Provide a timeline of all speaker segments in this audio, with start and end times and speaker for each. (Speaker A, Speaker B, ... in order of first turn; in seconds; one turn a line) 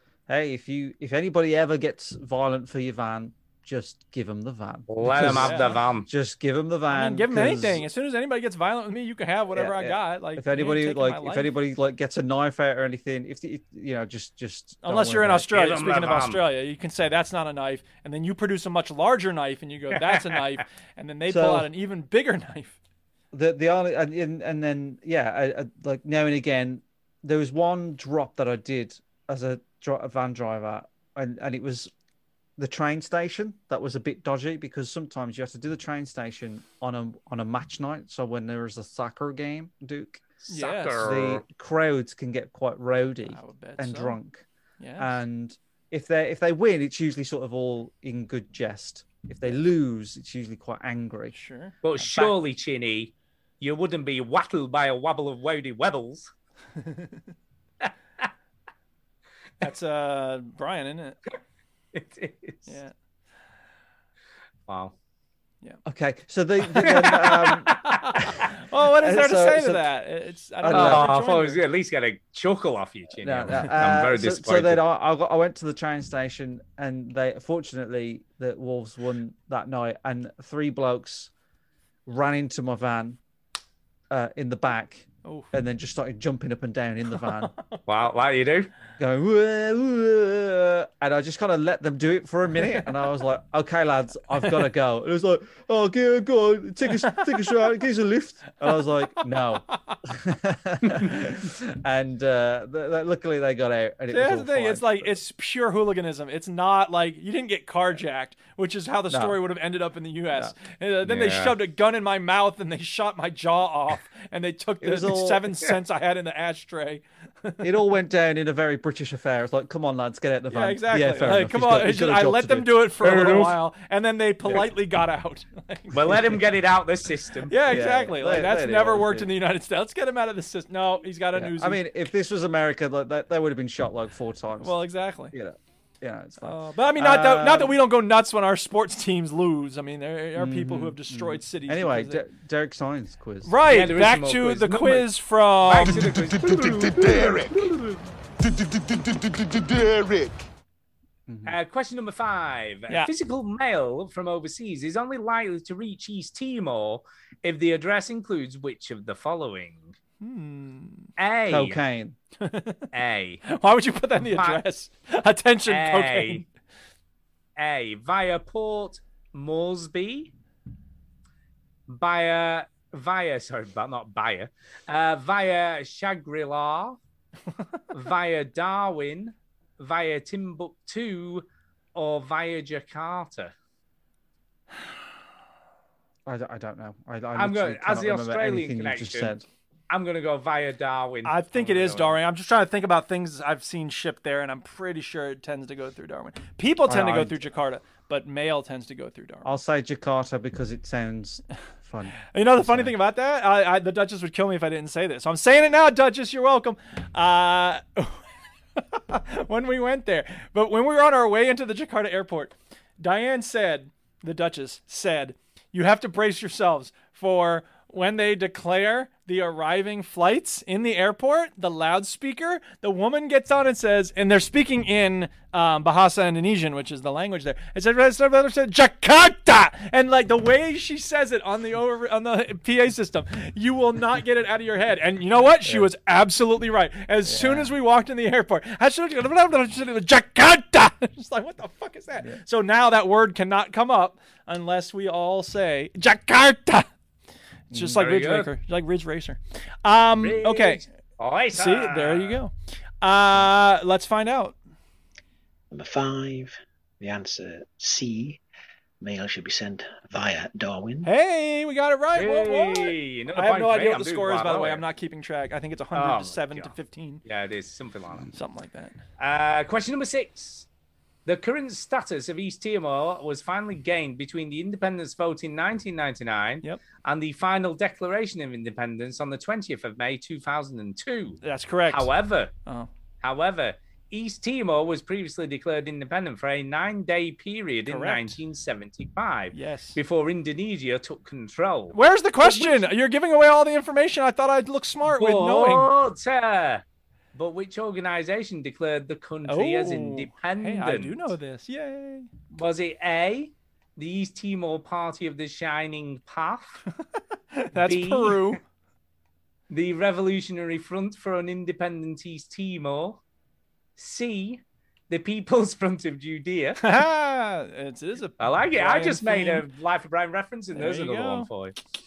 Speaker A: 0.3-7.8
Speaker B: 4.9-6.1
Speaker C: 5.1-5.8
Speaker C: 6.9-11.5
Speaker A: 9.5-15.5
Speaker C: 14.8-22.8
Speaker B: 15.5-16.4
Speaker A: 21.3-21.7
Speaker A: 23.3-31.9
Speaker A: 32.6-40.2
Speaker B: 40.4-41.4
Speaker C: 40.5-41.1
Speaker A: 41.0-44.4
Speaker C: 43.3-44.2
Speaker C: 44.8-45.2
Speaker A: 45.0-51.4
Speaker C: 51.3-52.3
Speaker B: 51.8-56.3
Speaker C: 56.8-57.2
Speaker C: 59.6-61.2
Speaker B: 61.9-62.8
Speaker C: 62.7-62.9
Speaker B: 64.7-64.9
Speaker A: 65.8-69.9
Speaker B: 66.9-67.6
Speaker C: 67.7-71.6
Speaker A: 70.6-71.2
Speaker B: 70.7-74.8
Speaker A: 73.2-81.3
Speaker A: 82.0-83.2
Speaker A: 84.1-87.5
Speaker C: 85.2-85.5
Speaker C: 87.2-87.8
Speaker B: 87.9-88.7
Speaker A: 89.0-105.2
Speaker C: 96.9-97.5
Speaker C: 104.1-117.7
Speaker A: 109.1-109.4
Speaker B: 111.0-111.5
Speaker A: 114.8-115.5
Speaker A: 117.6-123.4
Speaker C: 120.5-126.4
Speaker B: 123.0-123.5
Speaker B: 125.9-127.5
Speaker C: 127.5-131.8
Speaker A: 127.6-129.3
Speaker A: 131.3-134.8
Speaker C: 134.6-135.3
Speaker A: 135.3-137.8
Speaker C: 136.4-142.2
Speaker A: 140.3-143.6
Speaker C: 143.4-146.0
Speaker B: 143.7-145.1
Speaker B: 145.6-146.6
Speaker D: 145.8-147.7
Speaker A: 146.4-148.0
Speaker D: 148.4-150.5
Speaker A: 151.3-151.6
Speaker B: 151.4-159.9
Speaker C: 160.2-161.1
Speaker B: 161.2-161.8
Speaker A: 161.5-162.1
Speaker C: 162.4-162.8
Speaker B: 162.9-163.4
Speaker C: 163.4-166.4
Speaker B: 164.2-164.6
Speaker B: 165.7-166.4
Speaker B: 167.6-170.3
Speaker B: 171.9-177.0
Speaker B: 177.9-183.5
Speaker A: 186.2-189.4
Speaker B: 187.3-189.3
Speaker B: 189.9-192.2
Speaker C: 191.2-199.5
Speaker A: 196.8-197.4
Speaker A: 199.4-202.9
Speaker C: 202.3-208.2
Speaker C: 208.8-246.9
Speaker A: 235.6-235.9
Speaker A: 237.2-237.7
Speaker A: 247.7-248.0
Speaker C: 247.7-250.8
Speaker B: 248.0-248.5
Speaker B: 250.2-252.4
Speaker C: 251.5-254.6
Speaker E: 255.7-258.4
Speaker E: 259.0-261.1
Speaker C: 261.0-267.2
Speaker B: 262.1-264.8
Speaker B: 265.9-266.7
Speaker B: 267.2-268.3
Speaker C: 268.3-269.0
Speaker B: 269.2-270.7
Speaker B: 271.2-282.5
Speaker C: 281.4-282.1
Speaker B: 283.2-292.9
Speaker C: 287.9-288.4
Speaker C: 289.5-290.0
Speaker C: 291.9-295.9
Speaker B: 295.1-296.8
Speaker B: 297.3-301.3
Speaker C: 299.4-302.3
Speaker B: 302.5-306.8
Speaker C: 307.5-308.6
Speaker B: 307.8-308.6
Speaker B: 309.7-313.2
Speaker B: 314.0-316.8
Speaker C: 316.8-319.6
Speaker B: 318.4-321.7
Speaker C: 320.7-321.5